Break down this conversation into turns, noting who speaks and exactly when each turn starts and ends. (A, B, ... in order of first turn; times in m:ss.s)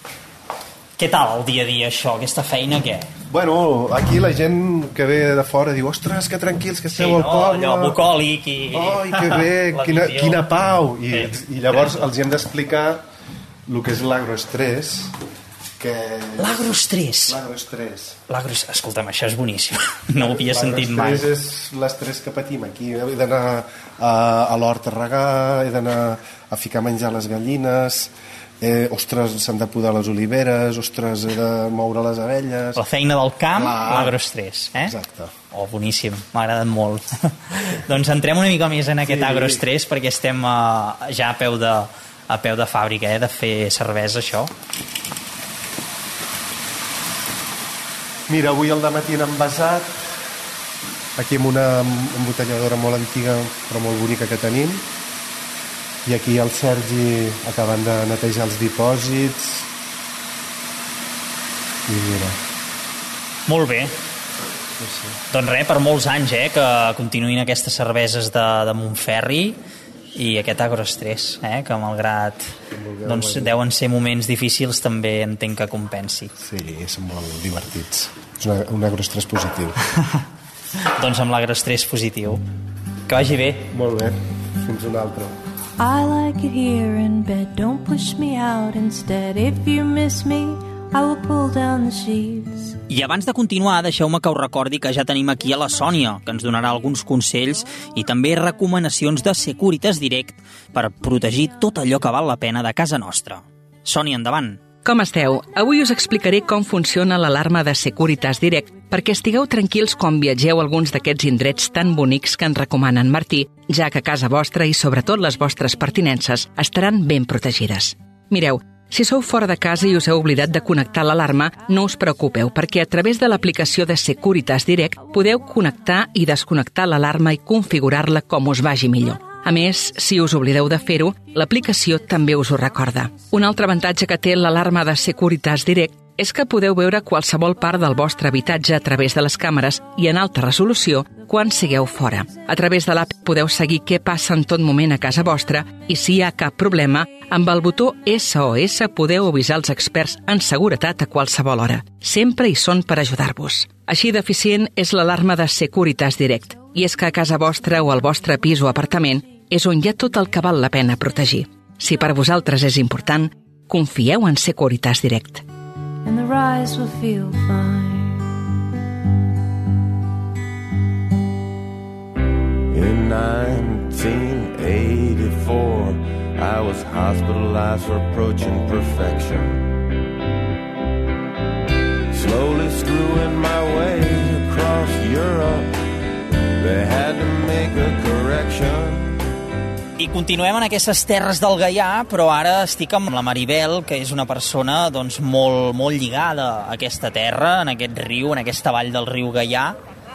0:01.0-0:03.1 A
0:03.3-0:08.0 B
0:07.0-0:10.4 A
0:08.7-0:13.0 B
0:11.1-0:11.9 A
0:13.7-0:15.1 B
0:15.8-0:18.2 B
0:16.4-0:17.4 A
0:18.3-0:21.3 A
0:20.2-0:32.8 B
0:32.8-0:34.9 A
0:33.5-0:34.2 B
0:34.8-0:35.3 B
0:35.5-0:44.5 A
0:39.0-0:39.6 B
0:48.3-0:50.1 B
0:51.2-0:54.8 B
0:56.0-0:59.7 B
1:01.9-1:02.4 B
1:03.5-1:03.9 A
1:04.8-1:05.2 B
1:05.3-1:09.6 A
1:10.1-1:16.3 A
1:12.7-1:13.6 B
1:16.4-1:19.8 B
1:21.0-1:22.4 A
1:23.1-1:23.7 A
1:23.7-1:25.4 B
1:25.8-1:32.8 C
1:32.9-1:44.6 A
1:44.8-2:45.4 D
2:46.0-2:48.4 C
2:52.7-2:59.8 E
3:02.1-3:05.7 E
3:06.6-3:09.2 E
3:10.0-3:19.8 A